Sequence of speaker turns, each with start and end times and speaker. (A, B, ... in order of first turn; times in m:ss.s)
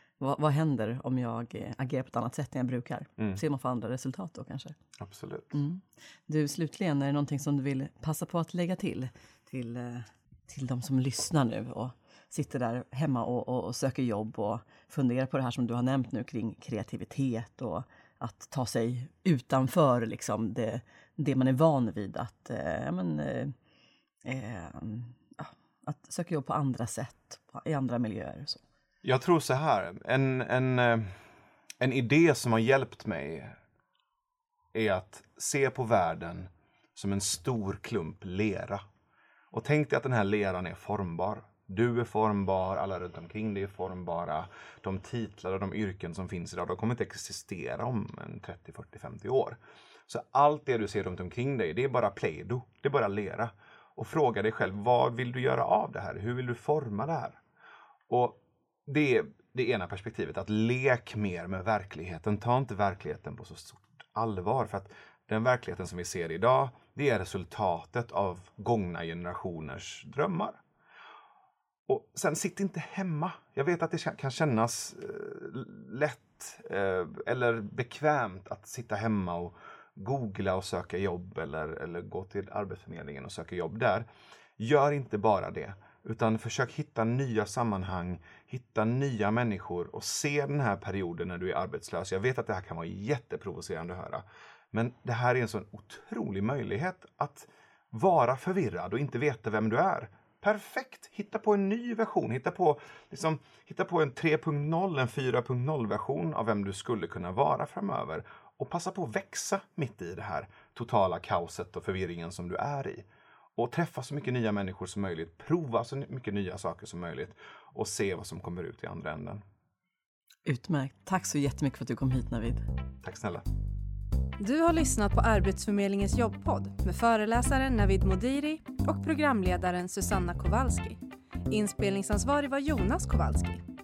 0:00.2-0:04.8 A
0:05.0-0:05.6 B
0:05.5-0:23.5 A
0:24.2-0:28.6 A
0:29.0-0:31.1 B
0:31.8-0:33.5 B
0:34.7-0:38.8 B
0:39.5-0:57.4 B
0:58.1-1:10.6 B
1:11.9-1:24.1 B
1:24.6-1:59.4 B
2:00.5-2:02.6 A
2:03.0-2:03.4 B
2:04.4-2:13.6 C